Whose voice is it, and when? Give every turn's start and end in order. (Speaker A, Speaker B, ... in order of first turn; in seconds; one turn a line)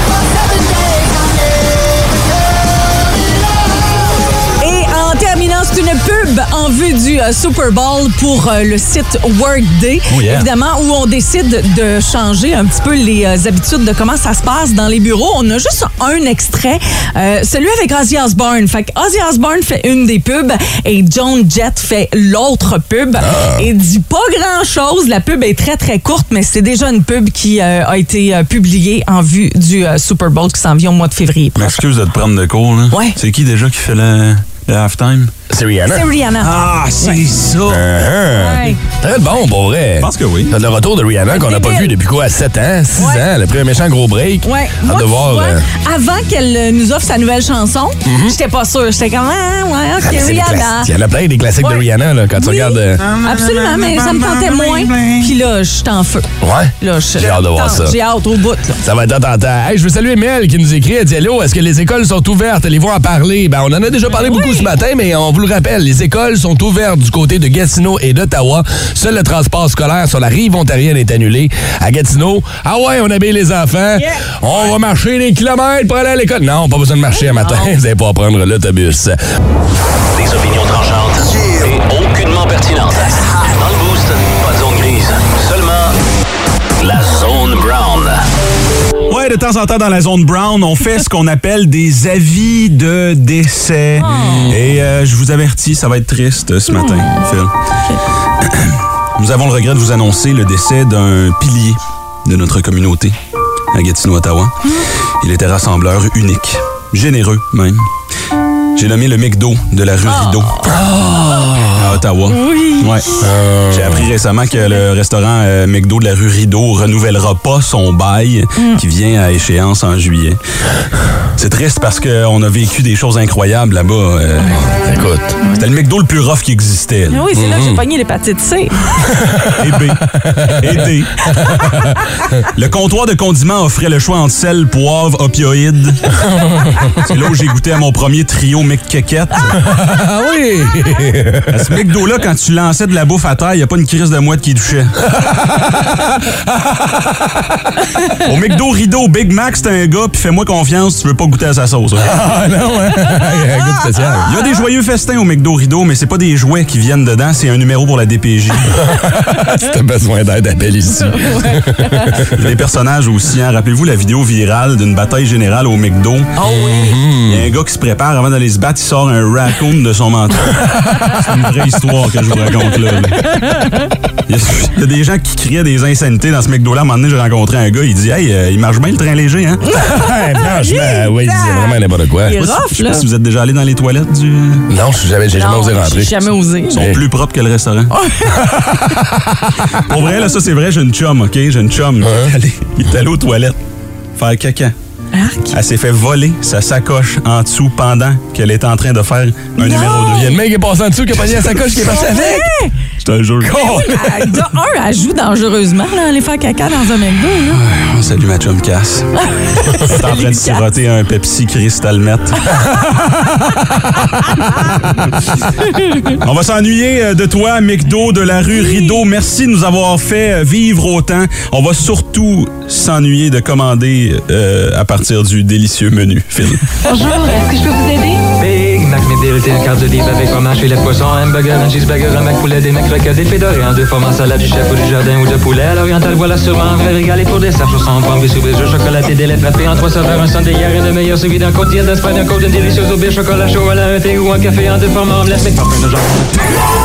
Speaker A: 4.6-31.8
Speaker B: 10.1-10.5
Speaker C: 23.2-23.7
Speaker B: 31.6-35.3
Speaker A: 32.9-33.2
Speaker C: 35.5-36.1
Speaker A: 35.9-37.2
Speaker B: 36.4-37.8
Speaker C: 37.7-45.7
Speaker A: 38.4-38.8
Speaker B: 40.0-40.5
Speaker A: 41.2-41.9
Speaker A: 43.0-43.3
Speaker A: 44.4-50.9
Speaker C: 48.0-48.4
Speaker C: 50.0-53.0
Speaker A: 51.6-56.3
Speaker B: 53.0-55.3
Speaker C: 56.4-58.0
Speaker A: 56.8-58.8
Speaker C: 58.8-79.2
Speaker A: 64.1-64.7
Speaker A: 74.0-74.3
Speaker A: 77.2-77.7
Speaker D: 80.2-86.0
Speaker D: 86.8-88.2
Speaker B: 89.1-97.5
Speaker A: 94.0-94.5
Speaker C: 94.1-94.6
Speaker A: 96.7-97.2
Speaker B: 98.4-103.2
Speaker B: 103.7-104.6
Speaker B: 105.2-107.9
Speaker B: 108.8-110.8
Speaker A: 110.1-110.8
Speaker C: 110.7-112.0
Speaker B: 111.8-120.4
Speaker A: 112.3-113.0
Speaker C: 113.2-114.1
Speaker A: 114.6-114.8
Speaker B: 121.4-124.7
Speaker C: 124.8-125.3
Speaker B: 125.5-127.2
Speaker A: 127.1-128.8
Speaker C: 127.3-127.8
Speaker C: 129.2-129.5
Speaker B: 129.6-131.2
Speaker C: 130.2-130.6
Speaker C: 131.4-131.9
Speaker A: 131.5-131.7
Speaker B: 132.5-136.1
Speaker C: 136.4-136.9
Speaker B: 137.0-139.5
Speaker C: 139.6-141.7
Speaker B: 141.5-145.0
Speaker C: 145.1-146.9
Speaker B: 148.2-152.2
Speaker C: 152.0-154.3
Speaker B: 154.3-158.8
Speaker C: 158.9-162.5
Speaker A: 161.1-162.1
Speaker B: 162.3-166.3
Speaker A: 166.4-167.0
Speaker C: 166.4-167.5
Speaker B: 167.3-173.5
Speaker A: 173.4-173.9
Speaker B: 174.3-179.6
Speaker A: 179.7-183.0
Speaker C: 179.8-182.5
Speaker B: 182.4-184.7
Speaker C: 184.7-187.0
Speaker A: 185.4-186.8
Speaker B: 186.7-187.9
Speaker A: 187.9-188.4
Speaker C: 188.5-188.9
Speaker B: 189.8-193.6
Speaker C: 192.0-192.3
Speaker B: 194.2-194.7
Speaker A: 195.1-195.6
Speaker B: 195.5-200.3
Speaker A: 199.6-200.3
Speaker C: 199.8-202.5
Speaker A: 201.8-202.7
Speaker B: 203.0-203.6
Speaker C: 203.4-204.4
Speaker A: 203.4-207.6
Speaker B: 207.5-209.1
Speaker A: 209.2-210.6
Speaker B: 209.7-212.6
Speaker B: 216.1-226.7
Speaker A: 218.5-219.0
Speaker A: 226.9-228.2
Speaker E: 228.3-246.3